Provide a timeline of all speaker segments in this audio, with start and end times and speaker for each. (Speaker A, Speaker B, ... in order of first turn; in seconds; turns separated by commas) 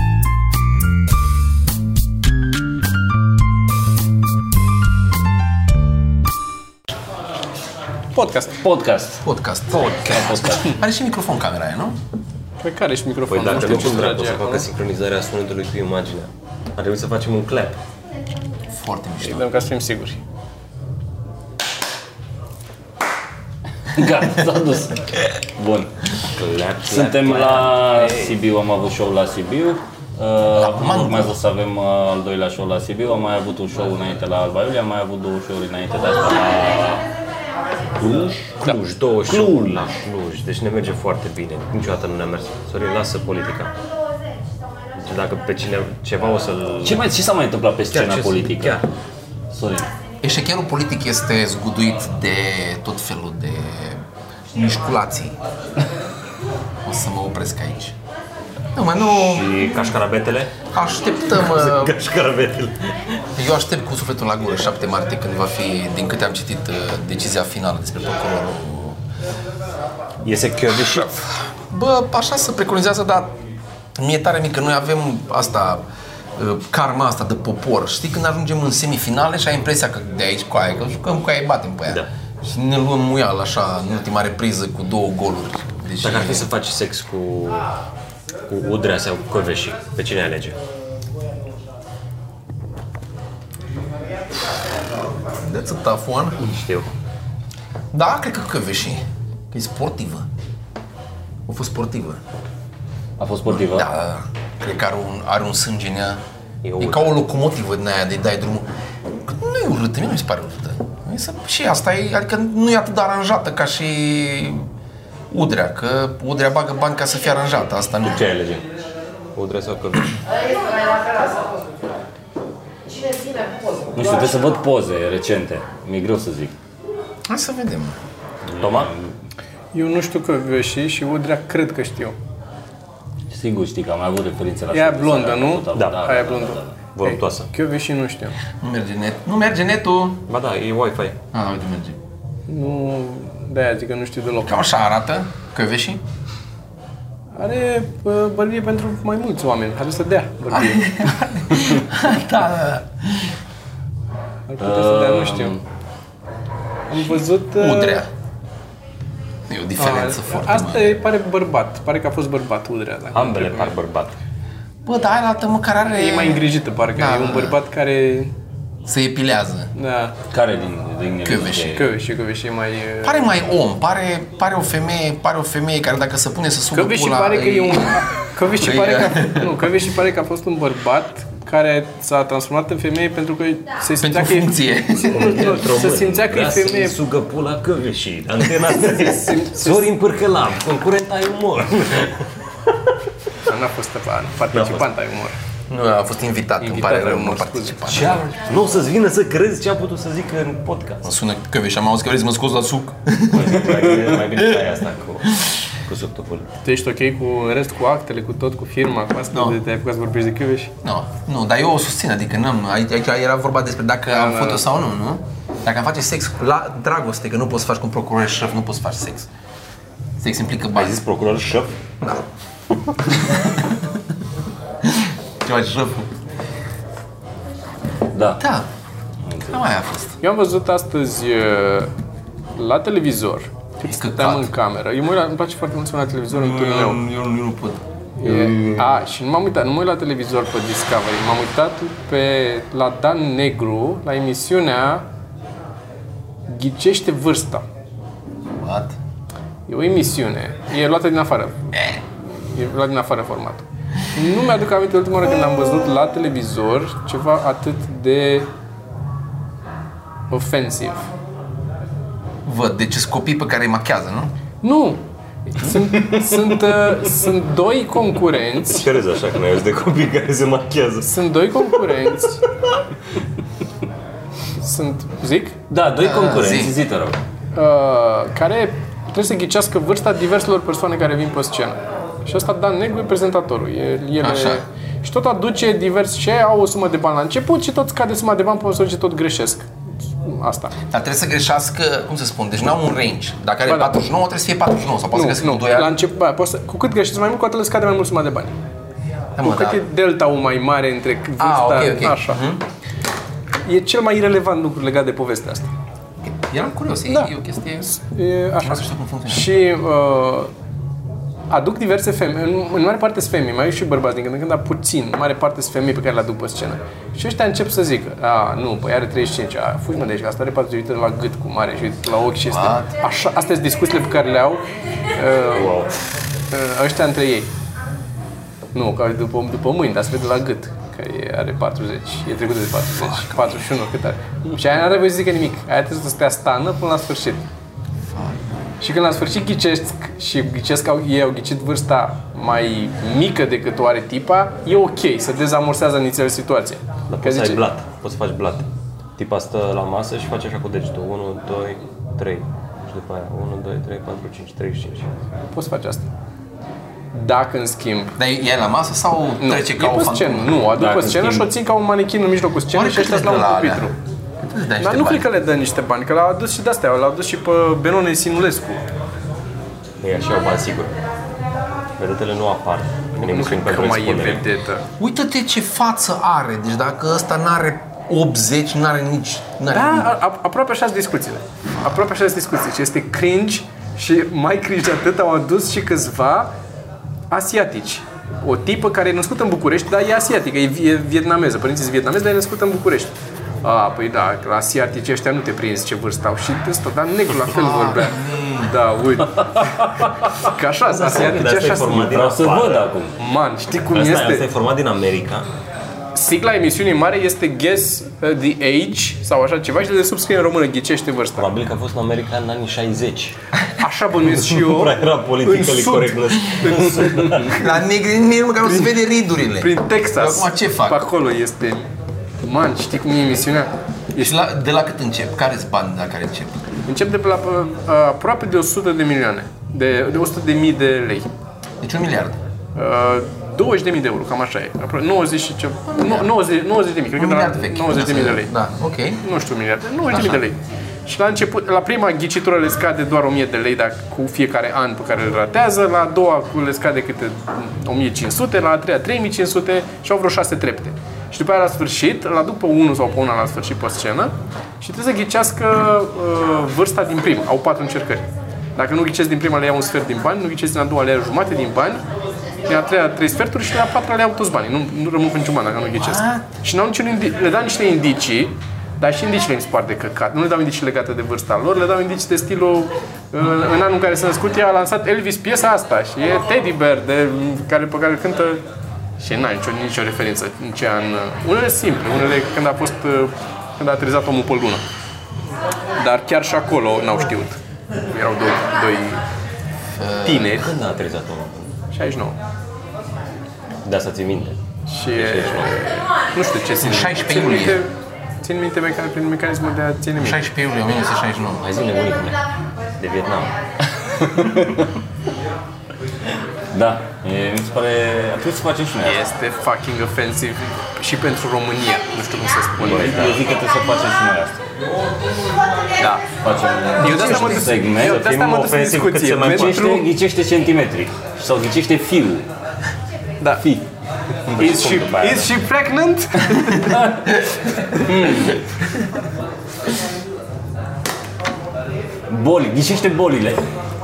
Speaker A: 8.2-8.6, Speaker B: 8.6-9.2, Speaker C: 9.2-12.0, Speaker D: 9.7-10.6, Speaker B: 9.8-10.8, Speaker A: 12.6-14.7, Speaker D: 13.3-17.8, Speaker C: 18.7-19.6, Speaker A: 19.2-20.2, Speaker B: 23.9-26.1, Speaker D: 26.4-28.4, Speaker B: 26.8-36.8, Speaker C: 30.5-31.4, Speaker D: 36.2-37.0, Speaker D: 38.0-43.7, Speaker D: 45.0-47.0, Speaker B: 46.8-48.8, Speaker D: 47.9-48.9, Speaker B: 49.5-49.9, Speaker C: 50.2-55.4, Speaker C: 56.9-58.0, Speaker C: 58.7-59.6, Speaker D: 59.0-60.6, Speaker C: 60.7-62.0, Speaker D: 61.3-63.2, Speaker C: 63.4-69.0, Speaker D: 70.2-71.2, Speaker C: 71.0-73.3, Speaker C: 74.0-75.8, Speaker C: 76.4-86.5, Speaker D: 86.0-87.7, Speaker D: 88.5-90.6, Speaker C: 95.3-96.4, Speaker D: 96.4-96.9, Speaker C: 97.9-100.3, Speaker C: 101.5-102.2, Speaker B: 103.2-103.9, Speaker C: 103.5-106.2, Speaker D: 106.6-107.1, Speaker C: 106.8-108.7, Speaker C: 109.2-114.7, Speaker C: 115.3-118.2, Speaker D: 118.0-118.6, Speaker D: 119.3-120.2, Speaker B: 123.9-126.5, Speaker C: 127.3-128.0, Speaker D: 128.6-128.9, Speaker B: 128.6-129.1, Speaker A: 129.7-132.2, Speaker B: 133.3-136.8, Speaker A: 134.7-138.3, Speaker D: 135.7-136.0, Speaker D: 136.9-137.5, Speaker C: 138.6-140.2, Speaker D: 140.3-141.2, Speaker C: 141.3-142.0, Speaker A: 142.5-144.6, Speaker C: 144.4-146.0, Speaker A: 147.3-150.9, Speaker C: 150.5-153.3, Speaker A: 154.5-155.6, Speaker B: 154.6-155.6, Speaker A: 156.9-158.0, Speaker C: 157.6-158.1, Speaker C: 159.5-160.9, Speaker A: 159.8-163.7, Speaker D: 163.1-164.2, Speaker C: 164.8-167.6, Speaker A: 165.9-168.3, Speaker C: 168.9-169.7, Speaker A: 169.8-170.2, Speaker B: 170.3-171.9, Speaker C: 171.2-171.8, Speaker A: 171.7-173.3, Speaker C: 173.0-178.0, Speaker A: 176.7-187.0, Speaker C: 178.6-179.6, Speaker C: 184.0-185.6, Speaker D: 185.1-192.3, Speaker A: 188.7-189.9, Speaker A: 193.4-195.4, Speaker D: 194.5-194.9, Speaker C: 195.7-198.2, Speaker A: 196.6-197.9, Speaker D: 197.9-201.2, Speaker C: 201.1-204.6, Speaker D: 203.3-206.5, Speaker C: 205.3-205.6, Speaker A: 206.6-210.7, Speaker C: 209.3-209.6, Speaker C: 210.8-219.3, Speaker A: 214.1-214.7, Speaker C: 220.2-221.0, Speaker D: 220.8-221.7, Speaker C: 223.2-224.0, Speaker C: 224.8-226.1, Speaker B: 228.1-228.4, Speaker C: 228.4-228.7, Speaker B: 229.3-229.6, Speaker C: 229.5-230.2, Speaker A: 230.2-231.9, Speaker A: 232.6-237.0, Speaker C: 233.9-234.5, Speaker C: 236.3-238.9, Speaker A: 238.2-245.1, Speaker A: 246.5-247.6, Speaker C: 248.5-248.9, Speaker A: 249.7-251.7, Speaker A: 252.3-258.5, Speaker A: 260.3-261.1, Speaker C: 262.4-264.3, Speaker A: 264.6-268.9, Speaker D: 268.7-271.1, Speaker A: 271.1-272.4, Speaker A: 274.6-275.6, Speaker B: 275.7-277.2, Speaker C: 276.0-276.8, Speaker A: 277.6-290.8, Speaker C: 284.2-284.6, Speaker C: 290.9-295.9, Speaker A: 293.7-293.9, Speaker A: 295.1-298.5, Speaker C: 299.4-299.8, Speaker A: 299.4-302.4, Speaker C: 301.4-302.6, Speaker A: 303.6-305.7, Speaker C: 306.2-307.9, Speaker A: 307.9-310.5, Speaker C: 308.6-309.5, Speaker A: 311.5-324.6, Speaker C: 322.5-322.9, Speaker A: 325.1-325.8, Speaker D: 325.5-325.9, Speaker A: 326.5-327.5, Speaker A: 328.7-337.4, Speaker C: 333.0-333.6, Speaker C: 338.1-338.5, Speaker A: 338.8-347.6, Speaker D: 347.1-355.1, Speaker A: 355.5-356.1, Speaker A: 357.1-358.2, Speaker C: 358.2-360.5, Speaker A: 359.4-363.9, Speaker B: 360.8-361.5, Speaker C: 362.7-365.3, Speaker A: 364.8-368.8, Speaker D: 370.0-370.9, Speaker D: 372.0-374.4, Speaker A: 373.2-374.9, Speaker C: 375.0-380.1, Speaker A: 379.7-386.5, Speaker A: 387.3-402.4, Speaker C: 397.5-398.7, Speaker D: 400.9-402.9, Speaker B: 402.1-403.1, Speaker A: 403.2-404.5, Speaker D: 403.9-405.5, Speaker A: 406.1-411.5, Speaker D: 411.4-413.4, Speaker A: 413.8-417.6, Speaker D: 414.2-417.6, Speaker C: 417.5-421.0, Speaker A: 418.6-418.9, Speaker A: 419.6-421.9, Speaker A: 422.4-424.4, Speaker C: 424.2-426.6, Speaker A: 426.9-431.3, Speaker C: 431.8-432.4, Speaker A: 432.8-438.5, Speaker C: 435.9-436.3, Speaker C: 437.2-439.2, Speaker A: 439.2-458.2, Speaker A: 458.8-462.0, Speaker A: 462.7-478.6, Speaker C: 466.0-466.4, Speaker A: 479.2-484.8, Speaker A: 486.0-489.2, Speaker C: 489.9-490.7, Speaker A: 490.2-490.7, Speaker D: 490.5-491.7, Speaker A: 491.9-492.4, Speaker D: 493.8-494.6, Speaker A: 494.9-500.4, Speaker D: 495.1-495.7, Speaker C: 496.8-497.8, Speaker C: 500.2-501.6, Speaker D: 501.6-502.4, Speaker D: 503.0-503.5, Speaker B: 504.2-504.9, Speaker B: 506.7-509.2, Speaker A: 509.0-513.3, Speaker D: 512.8-513.4, Speaker B: 512.8-514.6, Speaker A: 516.0-516.2, Speaker B: 516.4-518.3, Speaker A: 517.0-520.1, Speaker C: 517.0-517.6, Speaker D: 517.9-519.9, Speaker B: 519.4-522.5, Speaker D: 524.5-525.5, Speaker A: 524.6-527.0, Speaker B: 526.8-527.2, Speaker B: 528.0-528.6, Speaker B: 532.3-533.6